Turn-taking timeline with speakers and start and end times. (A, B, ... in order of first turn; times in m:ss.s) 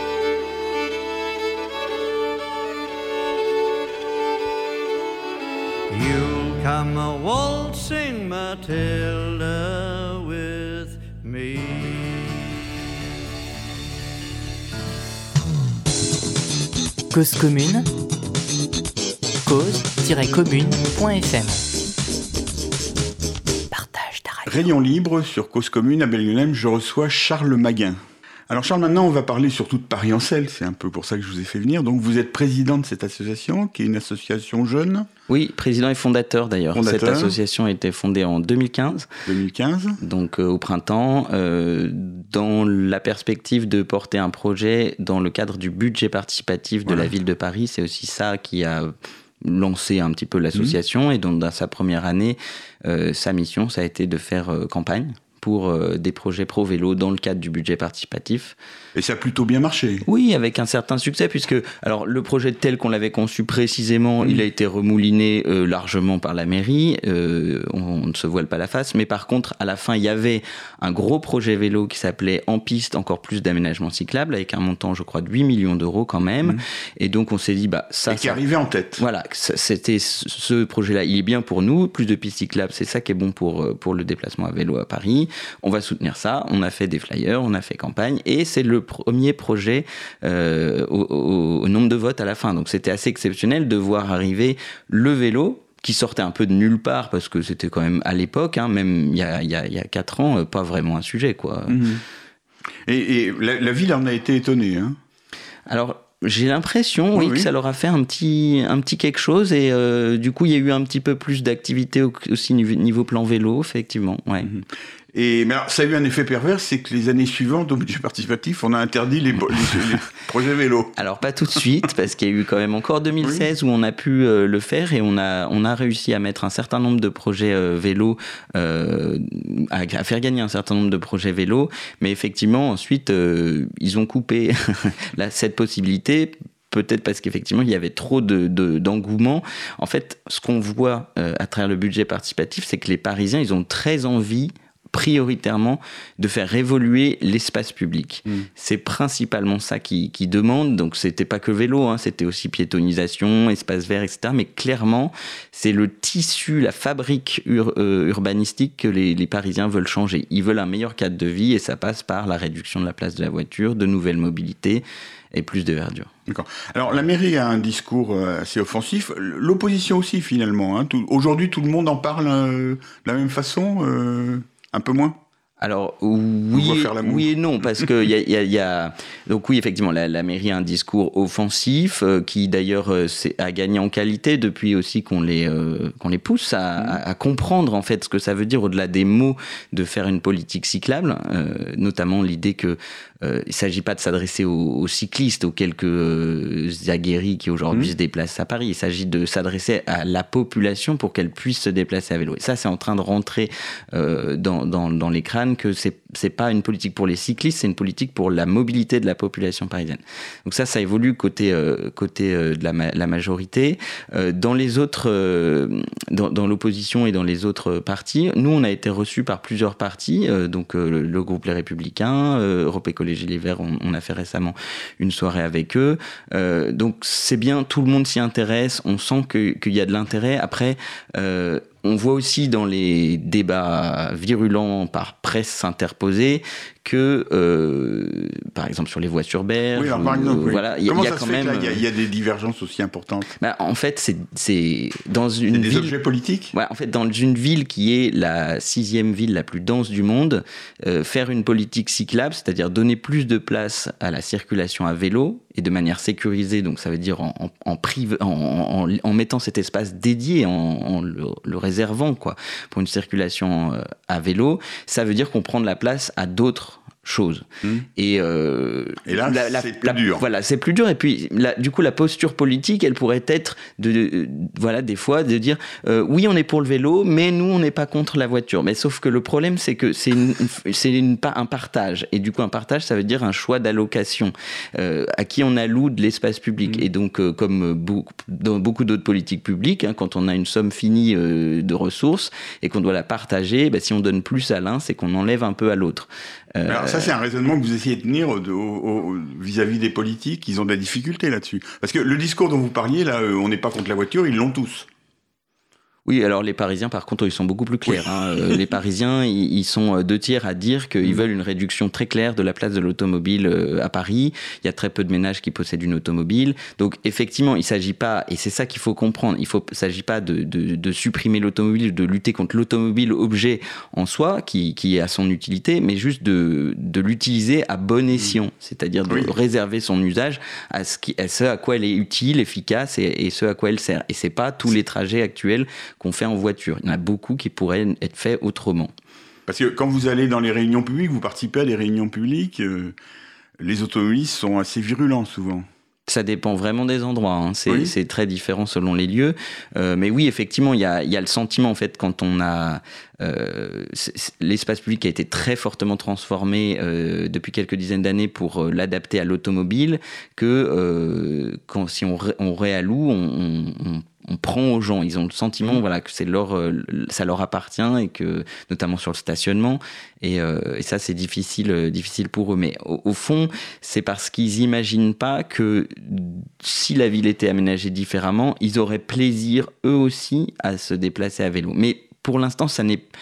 0:05.9-0:12.6 A
0:17.1-0:17.9 B
0:19.4-0:21.7 B
0:23.7-0:24.6 B
0:24.5-0:35.1 C
0:35.3-0:39.1 D
0:36.7-0:37.4 C
0:39.3-0:40.0 C
0:40.0-0:58.6 D
0:59.0-1:00.0 C
1:00.0-1:18.4 D
1:18.1-1:19.0 C
1:19.0-1:41.8 D
1:41.7-1:42.0 C
1:42.9-1:45.0 C
1:45.7-1:54.5 D
1:47.1-1:47.5 C
1:54.4-2:01.0 C
2:01.0-2:46.1 D
2:46.3-2:55.2 C
2:55.6-4:01.8 D
2:56.5-2:57.9 C
3:59.8-4:03.3 C
4:03.4-4:05.9 D
4:05.5-4:06.5 C
4:06.5-4:57.1 D
4:29.0-4:30.2 C
4:56.7-5:04.9 C
5:06.1-5:38.9 D
5:07.9-5:08.7 C
5:29.1-5:29.3 C
5:39.5-5:43.0 C
5:43.6-5:45.7 C
5:46.1-6:23.1 D
5:47.7-5:47.9 C